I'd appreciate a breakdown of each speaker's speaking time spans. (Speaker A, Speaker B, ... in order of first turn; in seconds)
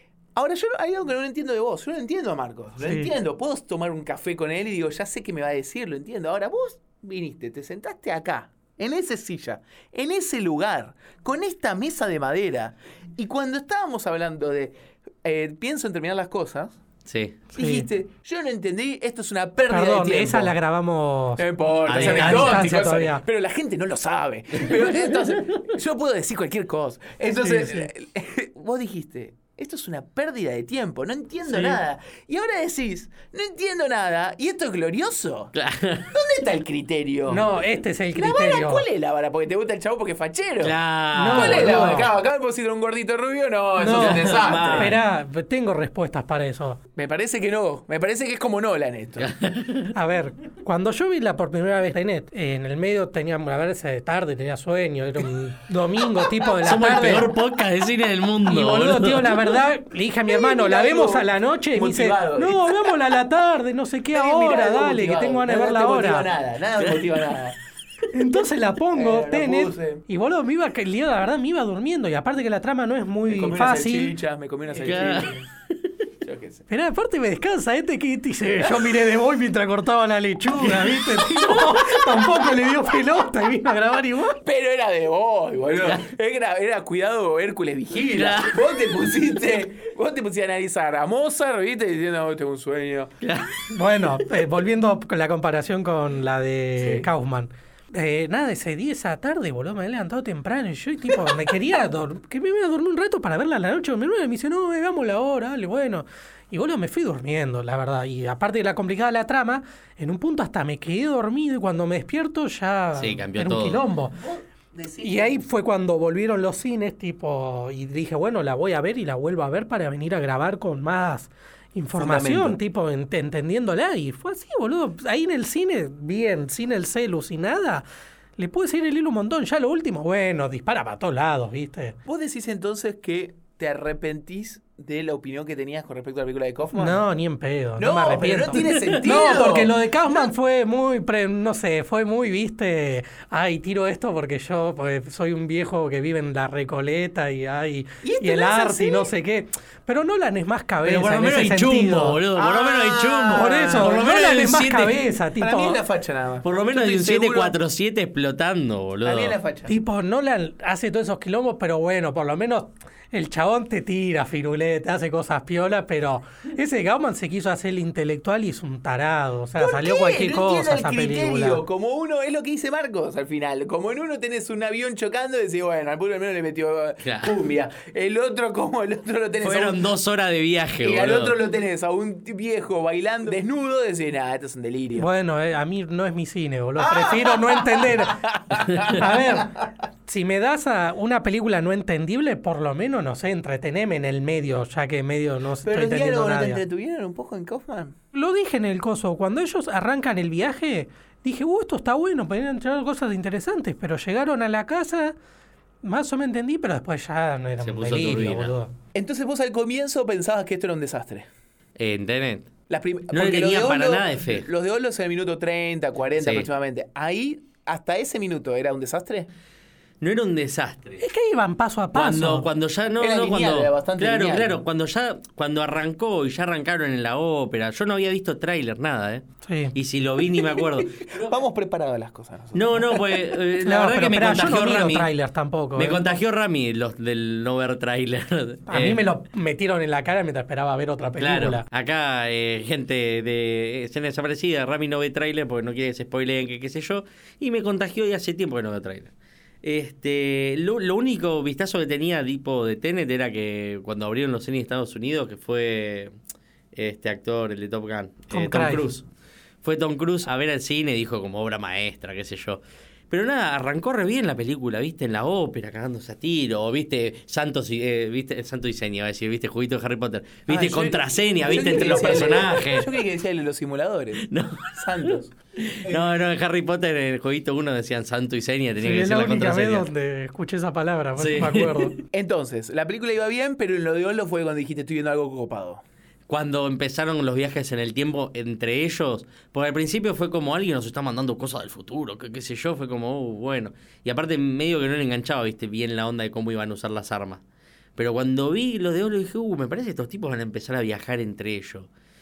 Speaker A: 0.3-16.8, 17.5-20.5, 21.4-35.5, 36.1-37.5, 38.1-45.0, 47.0-49.3, 60.3-62.9, 64.1-67.6, 68.9-70.0, 73.3-75.4, 76.2-76.7, 78.7-79.0, 80.6-82.4, 84.4-93.1, 96.8-97.1, 114.1-115.4, 122.0-122.6, 132.1-137.0, 137.8-140.3, 148.0-149.1, 152.3-154.6, 155.3-157.5, 159.0-159.7, 169.6-179.9, 180.8-185.1, 186.8-189.4, 195.6-197.9, 208.9-211.3, 212.7-219.3, 223.0-224.6, 230.3-233.3, 270.5-276.0, 282.1-285.8
Speaker B: 2.8-3.1, 17.5-17.9, 19.7-23.2, 27.4-27.9, 31.5-31.8, 37.3-38.8, 41.1-42.1, 43.8-46.8, 49.9-57.3, 58.4-66.3, 68.1-74.1, 76.7-84.4, 93.7-114.2, 115.0-127.8, 128.4-131.9, 136.7-152.2, 153.3-155.8, 159.7-171.6, 185.0-196.6, 198.1-205.1, 205.8-208.7, 221.0-222.5, 229.4-229.7, 233.6-236.0, 238.7-241.6, 258.3-258.9, 278.8-282.0
Speaker C: 17.1-17.4, 21.9-22.6, 35.5-36.2, 40.6-42.1, 43.9-45.0, 49.2-49.9, 56.6-59.6, 74.8-75.9, 88.1-88.8, 93.2-94.2, 113.0-113.8, 138.6-139.0, 150.8-155.0, 156.4-159.4, 177.0-177.3, 179.4-181.4, 207.6-208.5, 211.8-212.5, 213.1-214.5, 216.2-216.5, 220.0-221.0, 221.9-231.4, 232.5-235.1, 235.8-239.0, 241.2-256.1, 256.7-259.1, 259.6-272.9, 274.2-279.9, 281.2-282.0, 286.3-297.4, 298.0-301.9